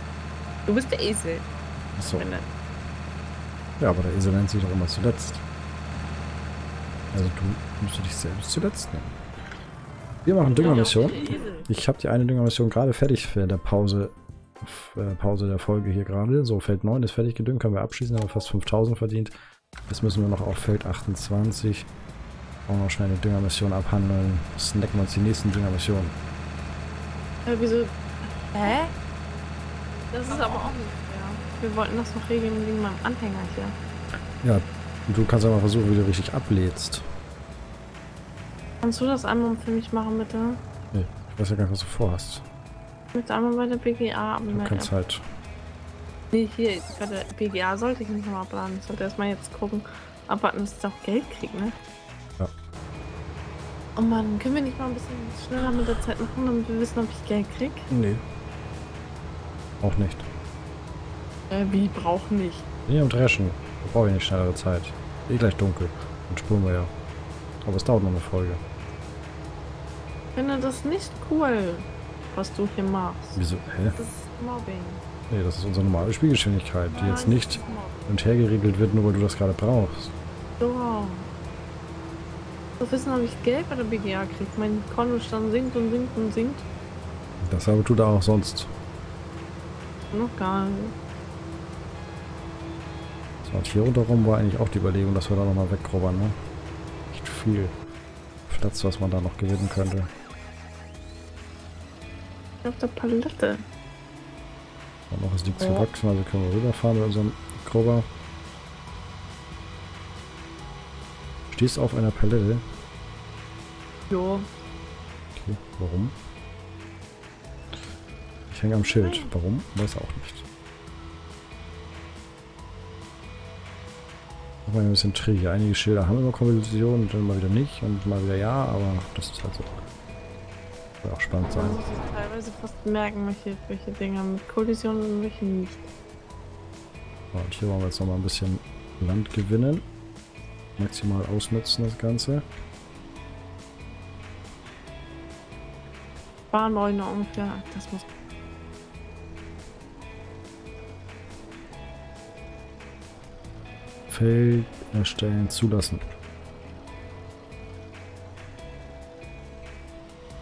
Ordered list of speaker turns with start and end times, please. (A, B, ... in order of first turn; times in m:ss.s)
0:00.7-0:01.4 A
0:02.0-0:02.3 B
0:02.1-0:02.5 A
0:03.8-0:05.4 B
0:07.1-0:09.2 B
0:10.2-0:19.3 B
0:10.5-0:11.6 A
0:19.9-0:21.9 B
0:22.7-0:26.1 B
0:27.4-0:28.9 A
0:30.1-0:33.8 A
0:34.4-0:37.0 B
0:38.8-0:40.6 A
0:40.9-0:42.4 B
0:43.1-0:44.9 A
0:44.5-0:45.2 B
0:46.3-0:51.8 A
0:54.0-0:57.9 A
0:57.9-0:58.2 B
0:59.8-1:00.3 B
1:01.5-1:02.6 A
1:02.9-1:06.9 B
1:07.6-1:08.6 B
1:10.3-1:13.4 A
1:13.4-1:14.0 B
1:14.0-1:15.0 A
1:15.3-1:20.1 B
1:16.9-1:18.0 A
1:20.6-1:21.3 A
1:22.8-1:26.6 A
1:27.4-1:28.7 B
1:30.1-1:31.0 A
1:33.4-1:36.4 B
1:37.1-1:37.7 B
1:38.5-1:40.1 B
1:42.6-1:43.6 A
1:45.1-1:48.1 B
1:45.6-1:45.9 A
1:51.5-1:52.6 B
1:54.1-1:54.5 A
1:55.4-1:56.2 B
1:58.5-2:00.4 B
1:58.8-1:59.3 A
2:04.6-2:09.7 B
2:11.0-2:11.8 B
2:11.5-2:15.9 A
2:17.3-2:19.9 B
2:20.8-2:22.4 B
2:26.5-2:28.0 A
2:34.1-2:36.0 B